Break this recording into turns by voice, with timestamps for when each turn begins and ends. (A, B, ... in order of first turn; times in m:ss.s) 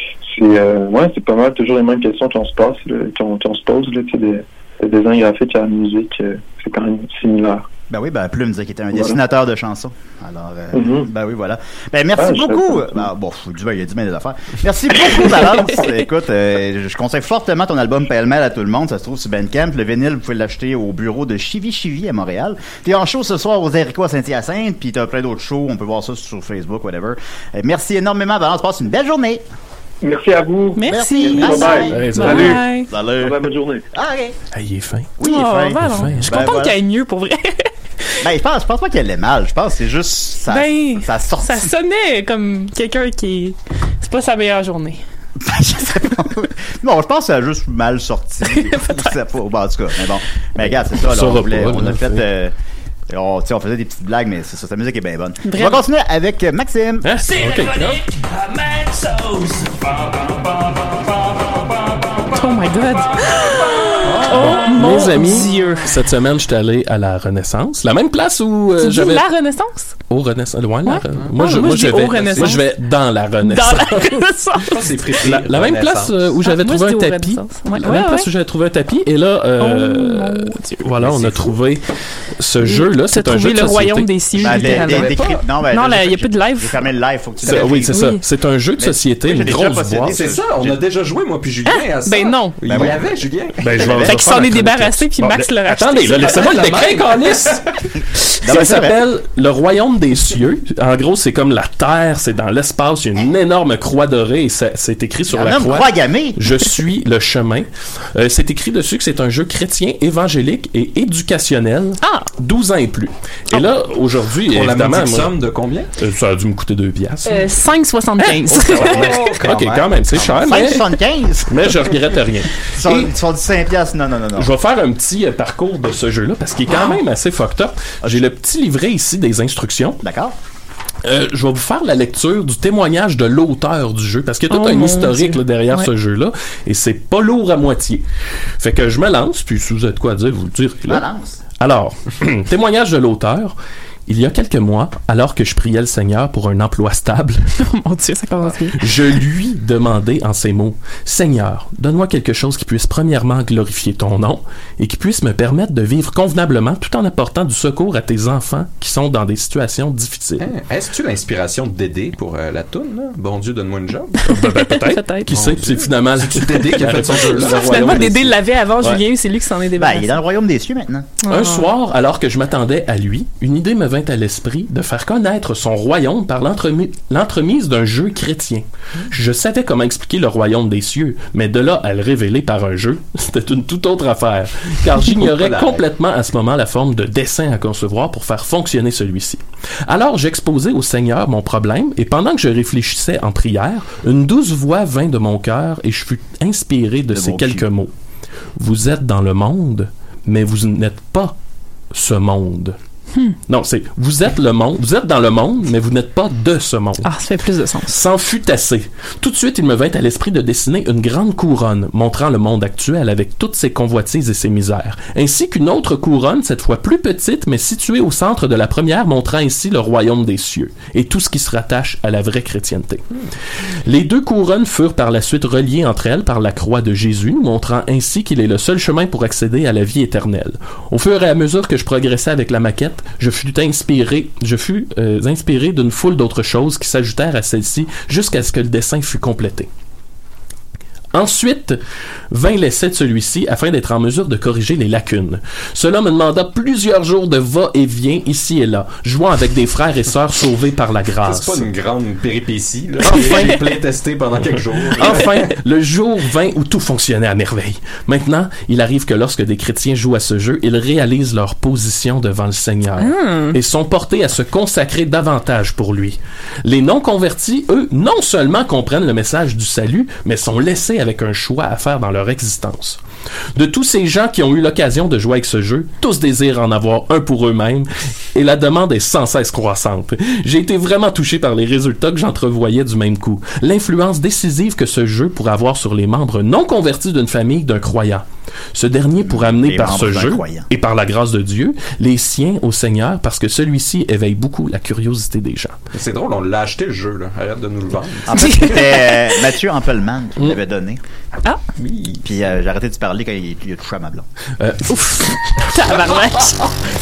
0:00.2-0:07.7 A
0:07.9-0:29.4 B
0:10.7-0:11.1 A
0:12.2-0:13.1 A
0:30.0-0:33.8 A
0:30.8-0:32.9 C
0:30.8-0:34.4 B
0:31.9-0:32.6 D
0:34.5-0:35.2 D
0:35.2-0:36.8 B
0:35.2-0:38.2 C
0:35.8-0:36.4 D
0:38.2-0:41.7 B
0:40.5-0:45.0 C
0:45.4-0:52.5 B
0:48.5-0:49.1 C
0:51.0-0:52.2 D
0:53.1-0:57.1 B
0:55.4-0:55.8 C
0:57.0-0:58.1 D
0:59.0-0:59.5 D
1:02.3-1:06.0 C
1:04.0-1:04.6 E
1:04.2-1:09.3 D
1:08.8-1:10.0 C
1:10.1-1:14.2 D
1:10.8-1:12.6 C
1:12.1-1:12.5 E
1:13.4-1:14.9 C
1:14.7-1:16.3 E
1:15.2-1:21.9 D
1:16.4-1:18.3 C
1:19.6-1:20.9 C
1:21.0-1:21.5 B
1:22.4-1:24.5 D
1:22.6-1:26.8 C
1:24.4-1:28.0 B
1:24.4-1:25.4 E
1:27.4-1:30.2 D
1:27.9-1:28.2 C
1:28.8-1:30.8 B
1:30.1-1:33.8 E
1:31.6-1:32.6 C
1:32.6-1:33.0 B
1:33.6-1:37.6 D
1:33.8-1:34.2 B
1:33.8-1:36.7 C
1:36.4-1:37.6 E
1:38.4-1:55.4 D
1:38.4-1:39.0 B
1:45.3-1:46.4 B
1:52.0-1:52.3 C
1:54.5-1:55.9 E
1:56.0-1:57.5 D
1:57.2-1:59.1 C
1:58.4-2:00.9 D
1:58.8-1:59.8 E
1:58.8-2:01.9 B
2:01.5-2:03.1 D
2:02.7-2:04.5 B
2:04.4-2:10.0 D
2:06.7-2:07.0 C
2:10.0-2:10.4 B
2:11.0-2:18.0 D
2:14.5-2:15.9 C
2:18.6-2:21.0 D
2:20.9-2:21.4 B
2:21.6-2:23.5 D
2:24.1-2:27.5 D
2:27.6-2:29.0 C
2:28.8-2:40.5 D
2:40.4-2:44.2 E
2:44.2-2:45.3 C
2:44.2-2:48.3 D
2:45.3-2:48.3 E
2:46.7-2:50.2 C
2:49.8-2:51.1 B
2:51.2-2:51.7 C
2:51.3-3:17.9 D
3:05.3-3:05.8 E
3:17.1-3:17.6 B
3:18.6-3:21.4 D
3:21.9-3:22.8 D
3:23.5-3:27.1 D
3:27.0-3:28.0 C
3:27.9-3:43.0 D
3:43.8-3:59.7 D
4:01.1-4:01.8 D
4:02.3-4:11.6 D
4:11.2-4:15.4 E
4:13.0-4:13.6 D
4:13.1-4:13.6 C
4:15.0-4:33.0 D
4:23.0-4:23.6 C
4:33.5-4:55.8 D
4:49.2-4:50.7 B
4:55.9-4:58.3 E
4:58.3-5:01.0 B
4:58.4-4:59.4 C
5:01.8-5:02.2 E
5:02.2-5:04.2 B
5:04.6-5:05.9 D
5:04.9-5:06.7 C